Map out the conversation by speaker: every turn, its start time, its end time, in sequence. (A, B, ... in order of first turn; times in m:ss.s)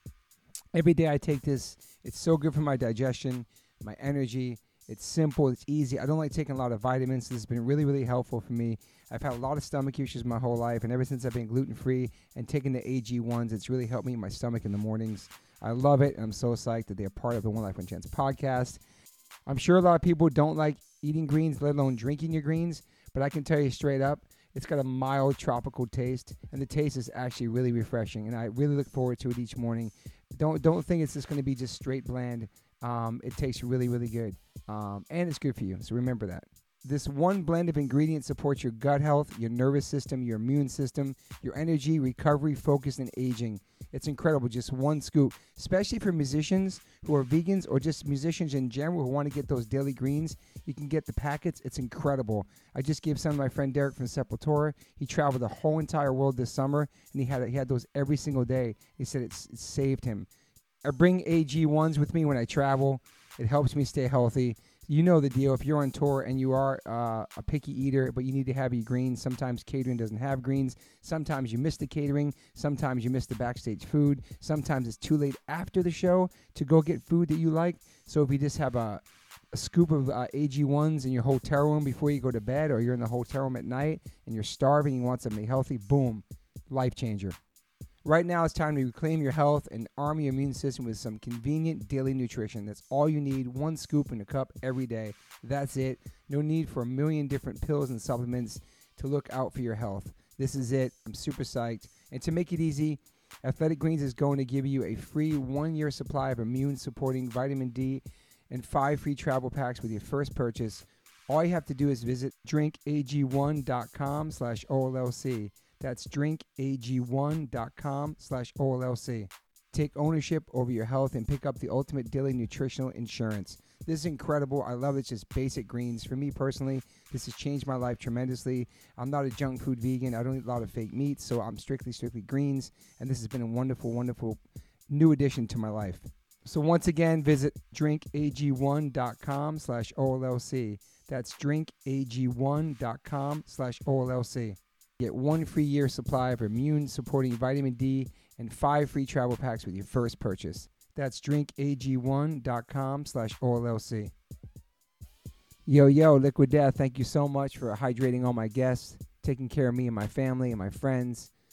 0:00.7-0:18.8 A
0:19.5-1:00.3 A
1:00.8-1:19.0 A
1:19.5-1:27.4 A
1:28.0-2:14.4 A
2:14.9-2:34.1 A
2:35.7-2:41.3 A